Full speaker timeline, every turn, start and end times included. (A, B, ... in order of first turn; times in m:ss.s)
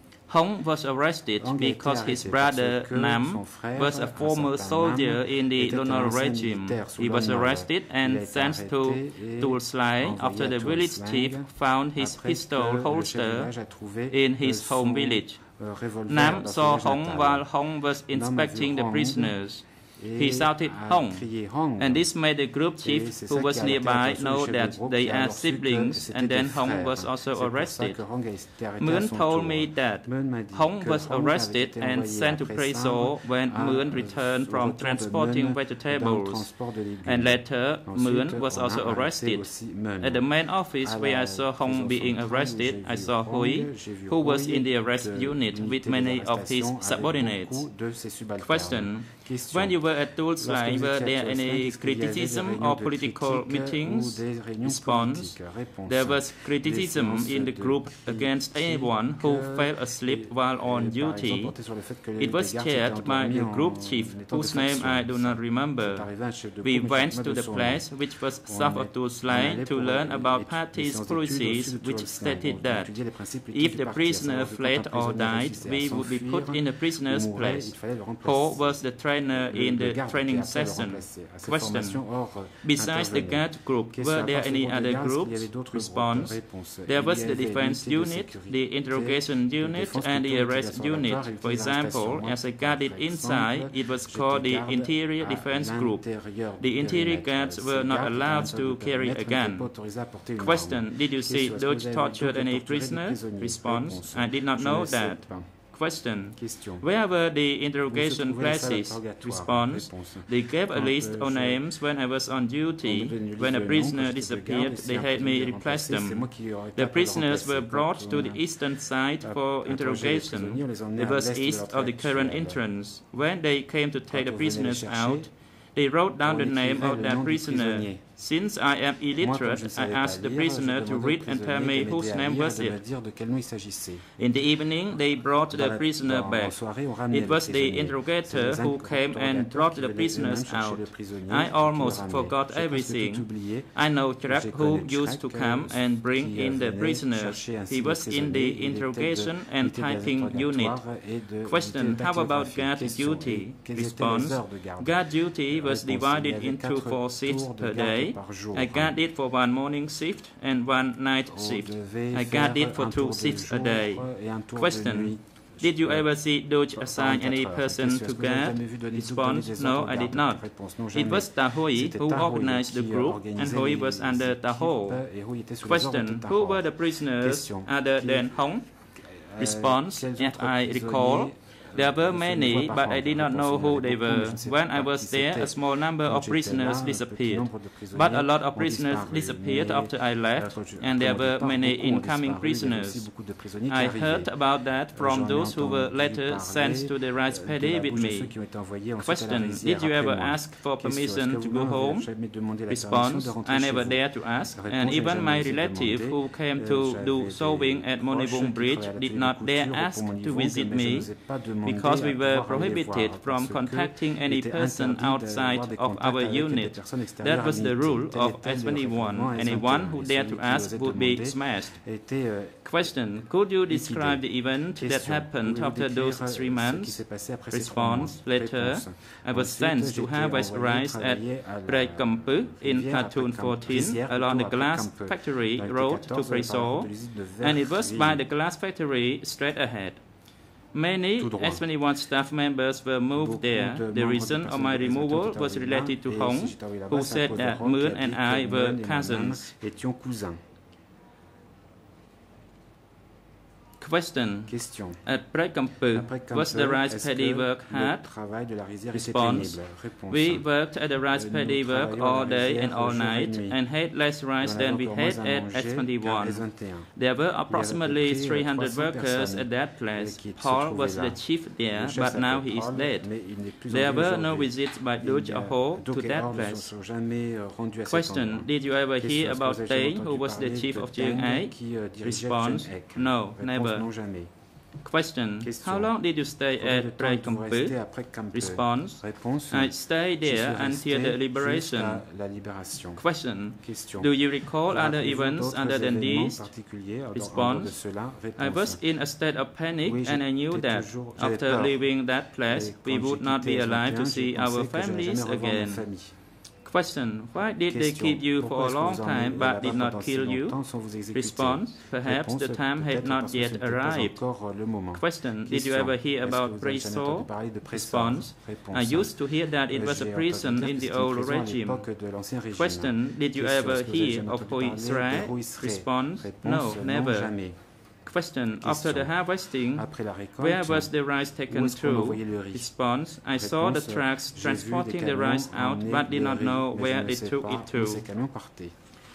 0:00.3-0:13.5 A
0:01.4-1:46.9 B
0:14.1-0:15.4 A
0:16.1-0:47.8 A
0:48.3-1:01.6 A
1:02.2-2:12.8 A
1:47.9-1:51.6 B
1:52.8-2:02.6 B
2:04.1-2:05.3 B
2:06.2-2:08.1 B
2:09.2-2:14.1 B
2:14.2-2:55.1 A
2:15.5-2:39.0 B
2:41.3-3:58.2 B
2:55.6-2:58.6 A
2:59.4-3:18.4 A
3:19.0-3:41.8 A
3:42.6-4:09.5 A
4:01.2-4:01.7 B
4:03.1-4:10.4 B
4:13.8-4:18.0 A
4:14.5-4:15.0 B
4:15.9-4:23.6 B
4:18.9-4:36.7 A
4:24.4-4:44.3 B
4:37.8-4:43.8 A
4:44.8-4:52.0 A
4:45.4-4:58.8 B
4:53.0-4:56.5 A
4:57.1-4:57.8 A
4:58.3-5:05.8 A
4:59.8-5:06.1 B
5:06.6-5:21.9 A
5:07.6-5:27.9 B
5:22.5-5:38.0 A
5:28.6-5:38.8 B